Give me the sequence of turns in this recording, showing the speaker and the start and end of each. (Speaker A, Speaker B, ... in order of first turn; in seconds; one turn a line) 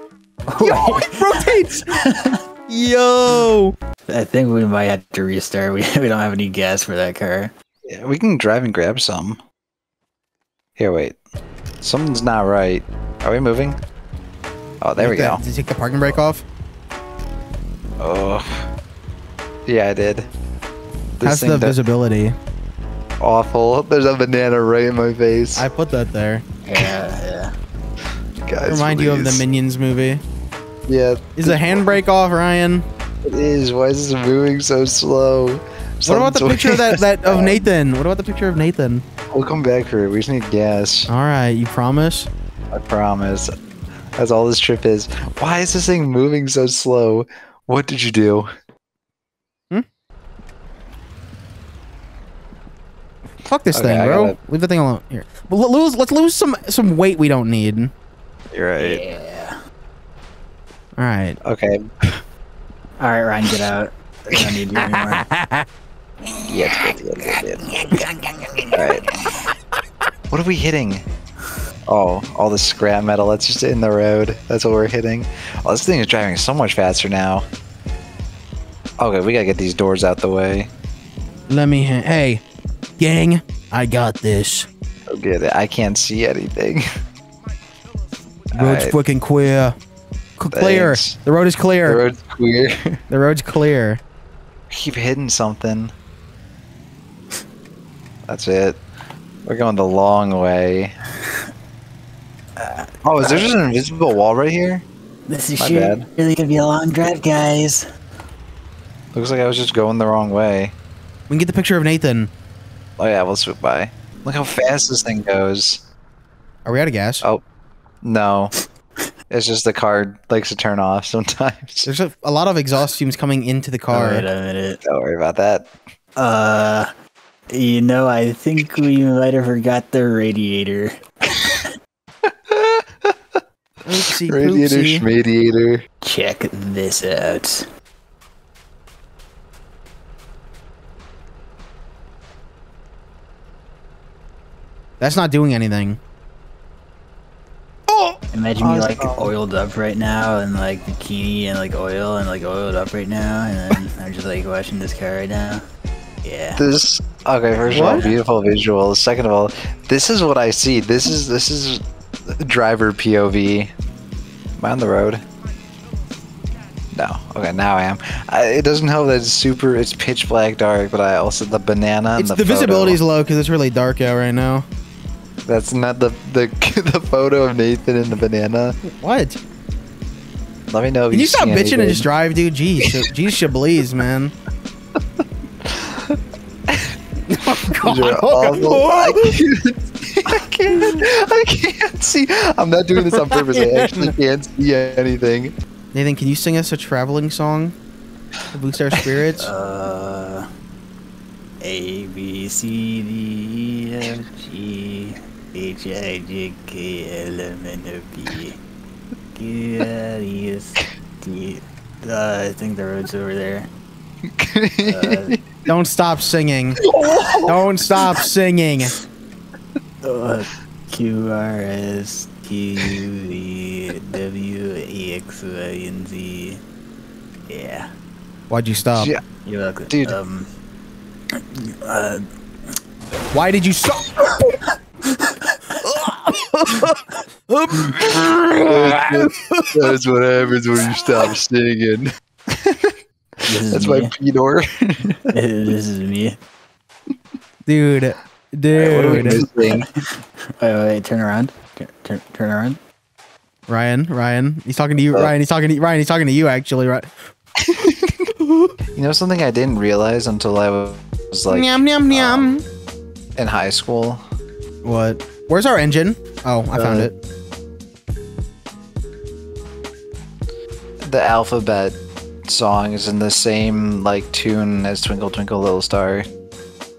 Speaker A: 0.5-2.4
Speaker B: 0.6-1.9
Speaker B: 2.7-3.7
Speaker A: 4.1-7.5
Speaker C: 7.8-9.4
Speaker C: 10.8-11.2
Speaker C: 11.8-13.8
Speaker C: 14.8-15.4
Speaker B: 15.0-16.4
Speaker C: 18.0-18.7
Speaker C: 19.6-20.3
Speaker C: 21.2-21.8
Speaker B: 21.2-22.4
Speaker C: 23.2-25.6
Speaker B: 25.5-26.4
Speaker A: 26.6-27.5
Speaker C: 28.4-29.4
Speaker B: 28.6-30.2
Speaker C: 30.9-31.8
Speaker B: 31.4-32.9
Speaker C: 33.2-37.6
Speaker B: 36.0-39.0
Speaker C: 39.3-41.1
Speaker B: 41.1-42.3
Speaker C: 42.7-43.5
Speaker C: 44.1-48.5
Speaker B: 53.5-57.9
Speaker C: 53.7-54.4
Speaker C: 58.5-59.0
Speaker A: 58.8-59.6
Speaker B: 61.0-61.4
Speaker C: 61.4-62.2
Speaker A: 63.0-65.2
Speaker B: 64.8-65.7
Speaker A: 66.4-69.4
Speaker C: 66.4-67.7
Speaker C: 68.7-69.1
Speaker C: 70.3-71.0
Speaker C: 71.9-77.5
Speaker C: 79.0-80.7
Speaker B: 81.5-82.4
Speaker B: 83.0-84.7
Speaker C: 85.1-86.9
Speaker C: 88.5-89.0
Speaker B: 88.5-89.8
Speaker B: 90.4-92.0
Speaker C: 90.5-91.2
Speaker C: 91.8-93.0
Speaker B: 93.1-94.0
Speaker C: 94.7-95.9
Speaker C: 98.3-98.8
Speaker C: 99.4-101.0
Speaker A: 102.6-103.8
Speaker C: 103.0-104.8
Speaker A: 105.3-107.8
Speaker C: 105.6-106.0
Speaker C: 109.1-110.7
Speaker B: 111.3-112.3
Speaker C: 113.0-115.8
Speaker B: 116.6-117.2
Speaker C: 118.0-118.5
Speaker C: 119.3-121.9
Speaker B: 121.8-124.2
Speaker A: 123.9-124.8
Speaker C: 124.8-125.7
Speaker A: 126.2-126.9
Speaker A: 127.5-131.7
Speaker C: 132.2-133.2
Speaker B: 133.8-135.1
Speaker C: 134.2-135.8
Speaker A: 136.0-137.7
Speaker B: 145.0-146.0
Speaker A: 148.3-155.6
Speaker C: 148.6-149.3
Speaker A: 156.2-156.6
Speaker C: 156.6-163.7
Speaker A: 157.6-158.2
Speaker B: 157.7-158.0
Speaker C: 164.6-165.2
Speaker C: 166.9-173.0
Speaker B: 172.2-174.7
Speaker C: 175.4-178.8
Speaker B: 178.8-179.4
Speaker C: 180.7-182.1
Speaker B: 181.1-184.3
Speaker C: 185.6-187.0
Speaker B: 187.3-189.3
Speaker C: 187.7-195.5
Speaker B: 190.7-191.0
Speaker B: 193.0-194.1
Speaker B: 195.9-197.8
Speaker B: 198.5-199.5
Speaker A: 199.4-200.5
Speaker A: 201.6-208.6
Speaker A: 209.3-213.7
Speaker C: 214.2-215.5
Speaker A: 214.8-215.3
Speaker B: 215.7-216.8
Speaker C: 216.8-217.5
Speaker B: 217.4-218.9
Speaker A: 220.0-226.6
Speaker A: 227.5-227.9
Speaker B: 228.5-229.1
Speaker C: 228.9-229.2
Speaker A: 229.4-230.5
Speaker C: 229.9-230.2
Speaker A: 231.3-232.2
Speaker B: 233.3-234.6
Speaker A: 235.0-235.5
Speaker B: 235.8-239.9
Speaker C: 238.7-243.0
Speaker A: 243.4-244.1
Speaker C: 243.7-245.3
Speaker A: 245.3-246.4
Speaker B: 247.7-249.4
Speaker C: 248.7-249.9
Speaker A: 249.6-252.8
Speaker B: 253.7-257.1
Speaker C: 257.6-258.3
Speaker B: 258.4-258.7
Speaker C: 258.9-262.5
Speaker B: 261.5-262.6
Speaker C: 263.4-264.2
Speaker B: 264.8-267.1
Speaker C: 266.7-267.1
Speaker C: 271.0-276.3